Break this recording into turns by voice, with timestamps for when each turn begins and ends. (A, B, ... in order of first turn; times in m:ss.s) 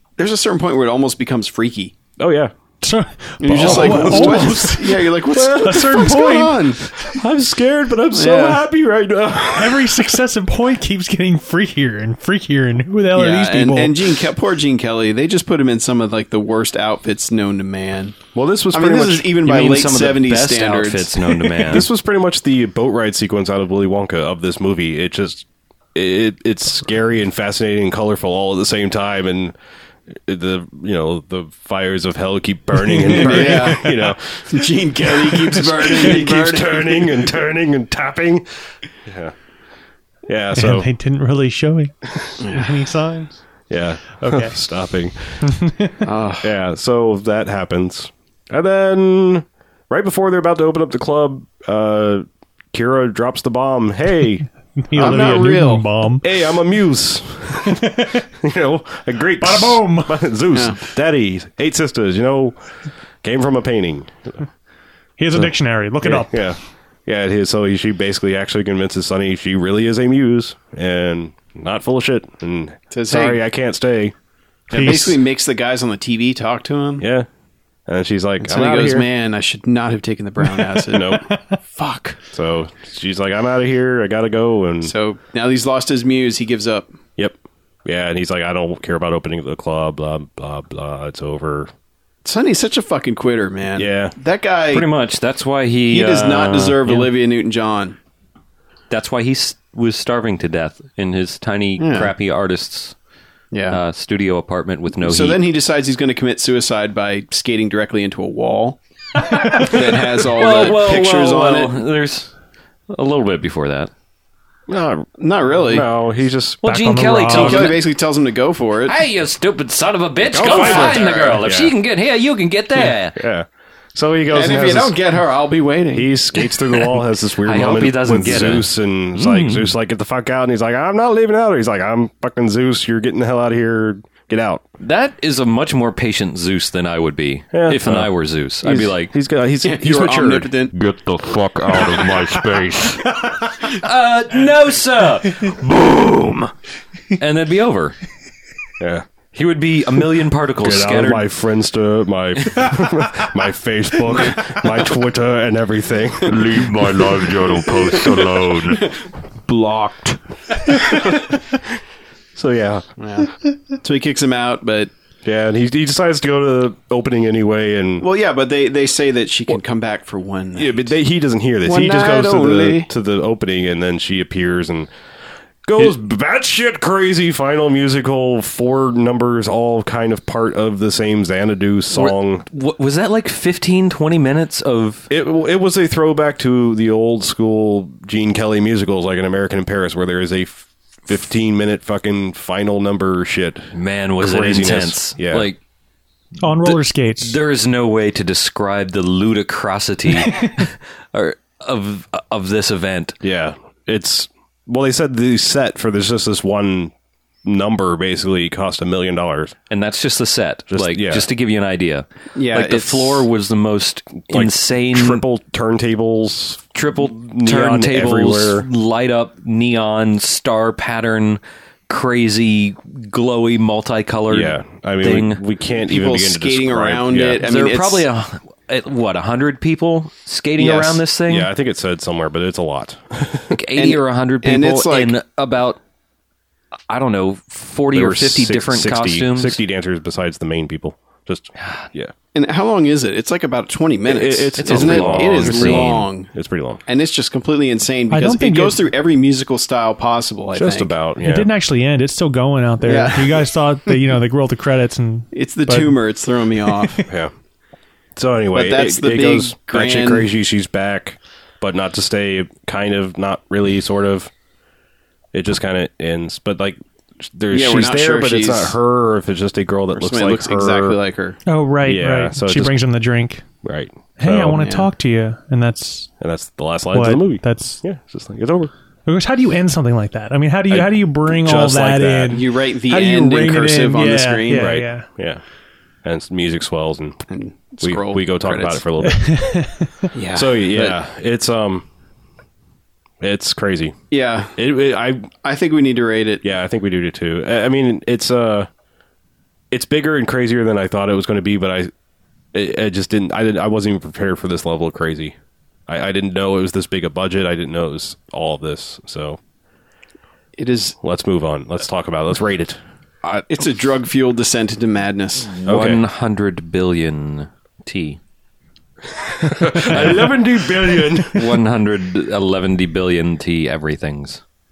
0:00.2-0:01.9 A
0:02.2-0:02.5 B
0:02.8-0:06.6 C
0:03.4-0:06.9 A
0:03.5-0:06.1 B
0:07.0-0:10.1 B
0:08.1-0:08.6 A
0:09.5-0:14.2 C
0:13.1-0:18.2 A
0:18.3-0:19.3 B
0:18.7-0:21.4 A
0:19.4-0:21.9 D
0:21.6-0:29.5 B
0:30.1-0:39.3 B
0:32.9-0:33.8 C
0:33.1-0:37.3 A
0:40.3-0:40.9 B
0:40.5-0:43.4 C
0:42.4-0:42.8 A
0:43.7-0:45.5 B
0:44.2-0:44.5 C
0:45.4-0:46.0 C
0:46.0-0:46.5 A
0:46.4-0:55.4 B
0:54.8-0:56.2 C
0:54.9-0:55.8 A
0:56.2-1:02.6 B
0:57.6-0:58.2 C
0:59.4-1:00.2 C
1:00.5-1:00.8 A
1:03.2-1:04.4 B
1:05.2-1:06.5 C
1:05.3-1:14.1 B
1:12.9-1:13.4 A
1:14.7-1:17.0 A
1:14.7-1:15.2 C
1:17.0-1:17.3 B
1:17.9-1:19.1 B
1:18.4-1:22.2 A
1:20.9-1:21.2 B
1:22.3-1:24.9 B
1:24.8-1:26.9 A
1:27.2-1:31.7 B
1:32.2-1:34.9 A
1:33.8-1:34.1 B
1:34.7-1:37.1 D
1:35.9-1:38.0 A
1:38.9-1:42.9 D
1:41.8-1:42.1 A
1:43.5-1:43.8 A
1:43.7-1:45.4 D
1:45.0-1:51.8 A
1:49.5-1:52.3 D
1:52.9-1:53.9 D
1:54.7-1:55.1 B
1:55.2-1:55.9 A
1:55.6-1:56.6 B
1:56.6-1:57.8 D
1:56.6-1:57.7 C
1:57.3-1:59.0 A
1:58.9-2:03.2 D
2:00.3-2:01.7 B
2:00.5-2:01.2 A
2:03.1-2:05.0 B
2:04.3-2:06.1 A
2:05.9-2:14.6 B
2:07.4-2:09.7 D
2:14.8-2:19.1 D
2:17.5-2:20.5 B
2:19.6-2:20.7 A
2:20.7-2:23.1 E
2:23.7-2:26.5 D
2:27.1-2:28.0 D
2:28.8-2:29.0 B
2:29.3-2:31.3 D
2:30.6-2:36.4 B
2:36.2-2:38.9 E
2:39.5-2:40.1 E
2:40.9-2:41.3 B
2:42.3-2:42.8 B
2:43.0-2:44.9 A
2:45.2-2:48.0 B
2:48.0-2:50.9 A
2:50.6-2:54.9 B
2:51.6-2:52.9 A
2:55.6-3:02.4 B
3:01.9-3:05.1 D
3:05.1-3:15.5 B
3:13.7-3:15.6 D
3:16.4-3:17.4 C
3:16.6-3:23.2 D
3:23.2-3:26.9 B
3:27.4-3:29.5 B
3:29.7-3:35.2 D
3:30.7-3:31.3 B
3:32.3-3:33.3 A
3:34.3-3:38.7 B
3:36.7-3:45.4 D
3:44.3-3:47.4 B
3:45.8-3:48.0 A
3:47.4-3:51.5 D
3:50.6-3:51.0 A
3:51.3-3:53.6 B
3:53.5-3:55.8 D
3:53.8-3:55.1 A
3:56.9-3:59.6 D
3:57.9-4:02.1 B
4:01.6-4:01.9 D
4:02.3-4:06.3 A
4:04.0-4:06.8 B
4:04.6-4:06.0 D
4:06.9-4:10.9 A
4:08.1-4:08.8 C
4:10.5-4:11.5 B
4:11.2-4:16.0 C
4:12.8-4:13.5 A
4:15.3-4:17.0 A
4:18.2-4:24.3 B
4:18.5-4:20.3 A
4:25.3-4:31.0 B
4:27.5-4:28.8 A
4:29.9-4:31.4 A
4:31.5-4:33.4 C
4:31.8-4:32.8 B
4:33.6-4:34.6 B
4:34.2-4:36.1 C
4:34.6-4:34.9 A
4:36.2-4:38.7 B
4:36.9-4:37.8 C
4:39.0-4:45.1 C
4:40.7-4:42.4 B
4:42.3-4:44.7 A
4:44.5-4:45.4 B
4:46.0-4:47.2 B
4:47.3-4:48.8 A
4:47.8-4:49.4 B
4:49.0-4:49.9 C
4:50.1-4:51.0 A
4:50.3-4:51.8 B
4:53.2-4:53.9 B
4:54.1-4:54.6 A
4:54.6-4:55.3 B
4:55.4-4:56.4 A
4:56.4-4:58.7 B
4:59.7-5:01.9 B
5:02.5-5:05.3 B
5:05.9-5:09.4 B
5:10.6-5:11.0 A
5:11.0-5:12.8 B
5:13.2-5:15.6 A
5:15.6-5:18.2 D
5:15.6-5:16.0 B
5:19.2-5:21.6 B
5:19.7-5:20.3 D
5:21.3-5:24.4 D